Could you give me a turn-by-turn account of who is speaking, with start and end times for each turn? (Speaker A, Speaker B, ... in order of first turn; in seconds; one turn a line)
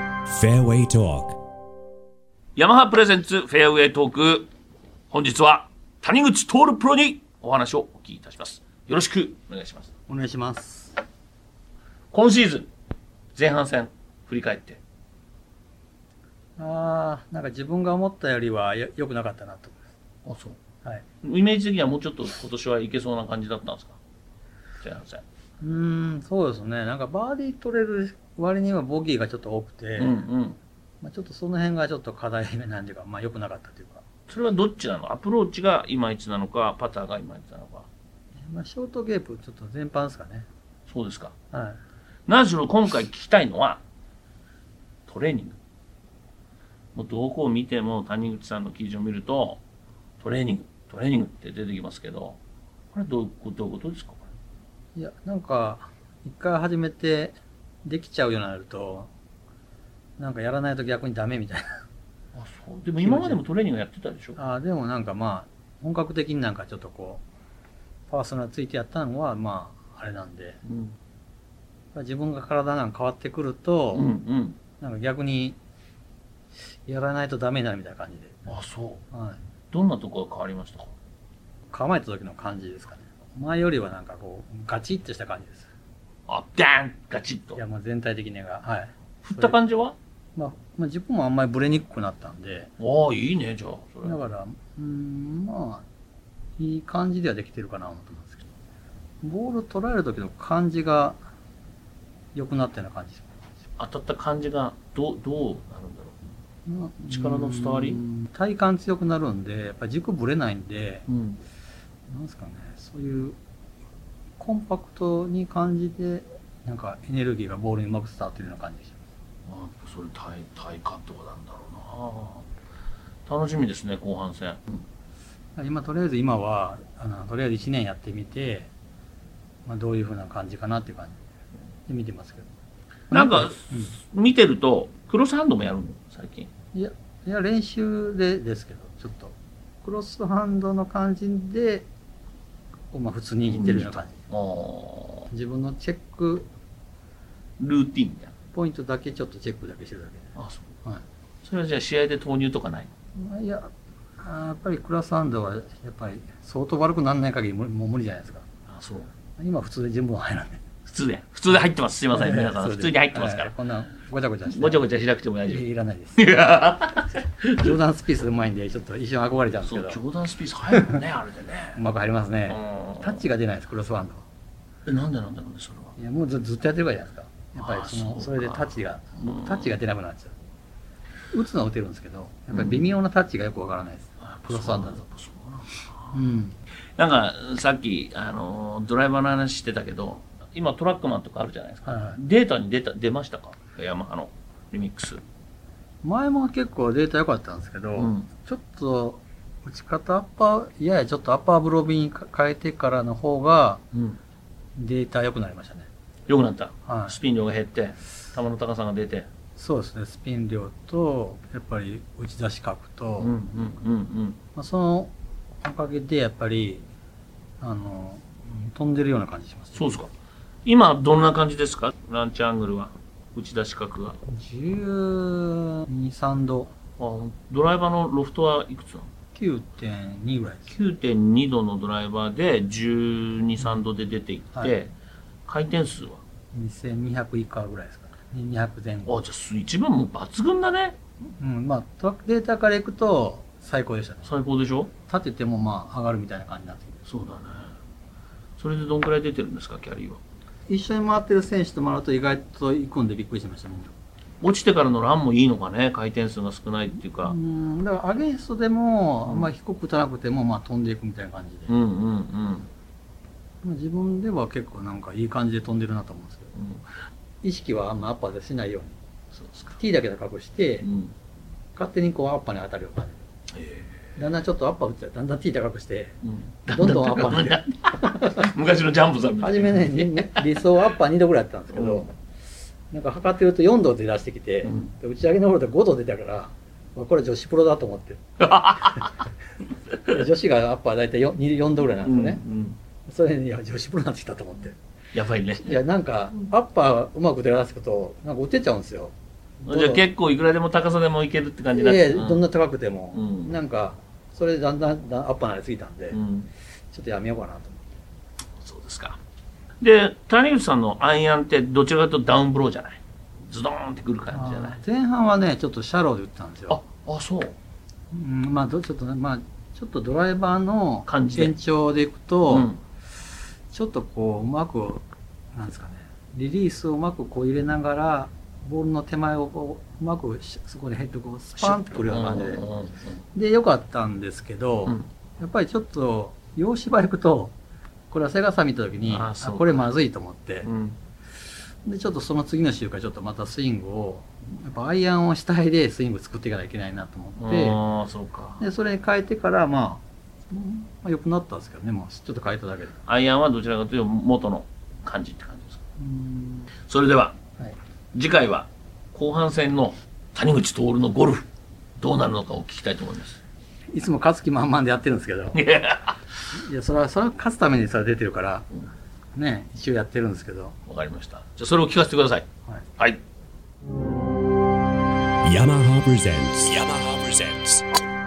Speaker A: 0.3-1.4
Speaker B: 2.5-4.5
Speaker B: 5.1-9.9
Speaker C: 10.1-10.9
Speaker B: 12.1-12.7
Speaker B: 13.3-14.8
Speaker C: 16.6-19.9
Speaker B: 20.2-20.6
Speaker B: 21.2-24.0
Speaker B: 24.8-25.2
Speaker C: 25.6-30.2
Speaker B: 30.0-30.6
Speaker C: 31.0-34.0
Speaker B: 34.3-37.9
Speaker C: 38.4-40.5
Speaker B: 40.9-41.3
Speaker C: 41.5-41.8
Speaker B: 42.3-43.8
Speaker B: 45.1-45.6
Speaker B: 46.9-49.6
Speaker B: 50.2-52.4
Speaker B: 52.9-54.3
Speaker C: 54.9-59.1
Speaker C: 60.2-61.8
Speaker B: 62.3-64.4
Speaker C: 63.0-63.4
Speaker C: 64.3-67.2
Speaker C: 68.1-70.6
Speaker B: 70.7-71.0
Speaker C: 71.9-74.1
Speaker B: 73.9-74.6
Speaker C: 74.8-75.6
Speaker C: 76.8-78.5
Speaker B: 78.5-79.0
Speaker C: 79.1-79.4
Speaker B: 79.7-80.9
Speaker C: 81.7-85.7
Speaker B: 86.3-87.6
Speaker C: 87.5-89.6
Speaker B: 89.2-90.0
Speaker C: 90.3-92.7
Speaker B: 92.8-94.2
Speaker C: 94.0-95.8
Speaker C: 96.6-98.5
Speaker C: 99.2-101.2
Speaker C: 102.3-103.5
Speaker B: 103.8-106.2
Speaker C: 106.7-111.1
Speaker B: 107.0-108.0
Speaker B: 111.1-111.4
Speaker C: 112.1-113.4
Speaker C: 114.4-119.0
Speaker B: 119.5-122.5
Speaker B: 123.3-124.8
Speaker C: 125.5-128.7
Speaker C: 129.6-131.2
Speaker C: 131.9-132.5
Speaker C: 133.1-133.9
Speaker B: 133.1-136.5
Speaker C: 136.7-141.9
Speaker C: 142.9-144.2
Speaker B: 143.5-145.3
Speaker C: 145.3-146.5
Speaker B: 147.6-148.3
Speaker C: 148.5-150.3
Speaker B: 150.3-150.7
Speaker B: 151.4-152.9
Speaker C: 153.2-158.5
Speaker B: 158.7-159.1
Speaker C: 159.4-160.6
Speaker B: 160.8-163.5
Speaker C: 162.1-164.8
Speaker B: 164.5-165.6
Speaker C: 165.4-166.3
Speaker B: 166.2-167.8
Speaker C: 167.5-170.0
Speaker B: 169.7-171.8
Speaker C: 171.7-174.2
Speaker B: 172.5-173.2
Speaker B: 174.8-175.9
Speaker C: 176.0-180.3
Speaker B: 177.6-179.8
Speaker C: 181.3-185.0
Speaker B: 182.5-182.8
Speaker B: 184.2-186.1
Speaker C: 186.1-186.6
Speaker B: 187.0-195.2
Speaker C: 191.8-192.2
Speaker C: 196.0-203.8
Speaker B: 197.9-198.3
Speaker B: 203.9-204.2
Speaker C: 204.8-205.9
Speaker B: 206.3-209.3
Speaker C: 206.8-207.2
Speaker C: 209.6-213.3
Speaker B: 213.2-214.4
Speaker C: 214.5-216.8
Speaker C: 217.6-220.0
Speaker B: 219.7-220.1
Speaker B: 220.6-224.2
Speaker C: 224.3-226.7
Speaker B: 227.0-229.1
Speaker C: 229.3-230.7
Speaker B: 230.7-234.9
Speaker B: 235.5-236.2
Speaker C: 236.5-239.1
Speaker B: 239.1-240.9
Speaker C: 241.2-244.3
Speaker B: 244.2-244.9
Speaker C: 245.1-247.0
Speaker B: 247.1-247.7
Speaker B: 248.6-250.2
Speaker C: 250.7-253.9
Speaker B: 254.4-257.3
Speaker C: 257.2-261.8
Speaker B: 261.7-262.7
Speaker C: 263.6-266.5
Speaker B: 266.6-266.8
Speaker C: 267.4-268.9
Speaker B: 269.3-269.7
Speaker C: 269.7-270.9
Speaker B: 270.8-271.1
Speaker C: 271.7-273.2
Speaker B: 273.5-274.1
Speaker C: 274.1-278.4
Speaker B: 276.2-280.6
Speaker C: 279.4-282.1
Speaker B: 281.7-282.0
Speaker C: 282.9-288.2
Speaker B: 284.6-284.9
Speaker B: 288.4-289.2
Speaker C: 289.9-292.4
Speaker B: 292.0-292.8
Speaker C: 293.1-294.8
Speaker B: 295.1-295.8
Speaker C: 295.6-300.0
Speaker B: 299.7-302.4
Speaker C: 301.7-306.2
Speaker B: 303.1-303.5
Speaker B: 306.1-306.5
Speaker C: 306.9-307.9
Speaker B: 308.6-309.2
Speaker B: 309.8-314.8
Speaker C: 314.3-316.8
Speaker B: 316.7-317.6
Speaker C: 318.1-322.7
Speaker B: 321.1-321.5
Speaker B: 322.5-322.8
Speaker C: 323.7-332.6
Speaker B: 331.6-333.2
Speaker C: 333.3-337.5
Speaker C: 338.1-340.7
Speaker B: 339.0-339.9
Speaker B: 340.6-341.0
Speaker C: 341.8-347.8
Speaker B: 347.4-348.6
Speaker C: 348.6-353.0
Speaker B: 353.1-355.8
Speaker C: 356.0-356.7
Speaker B: 356.9-357.4
Speaker B: 358.1-361.4
Speaker B: 362.0-363.4
Speaker C: 363.9-365.6
Speaker B: 365.5-366.2
Speaker C: 366.5-368.7
Speaker C: 369.3-370.8
Speaker B: 370.9-372.4
Speaker A: 375.4-377.8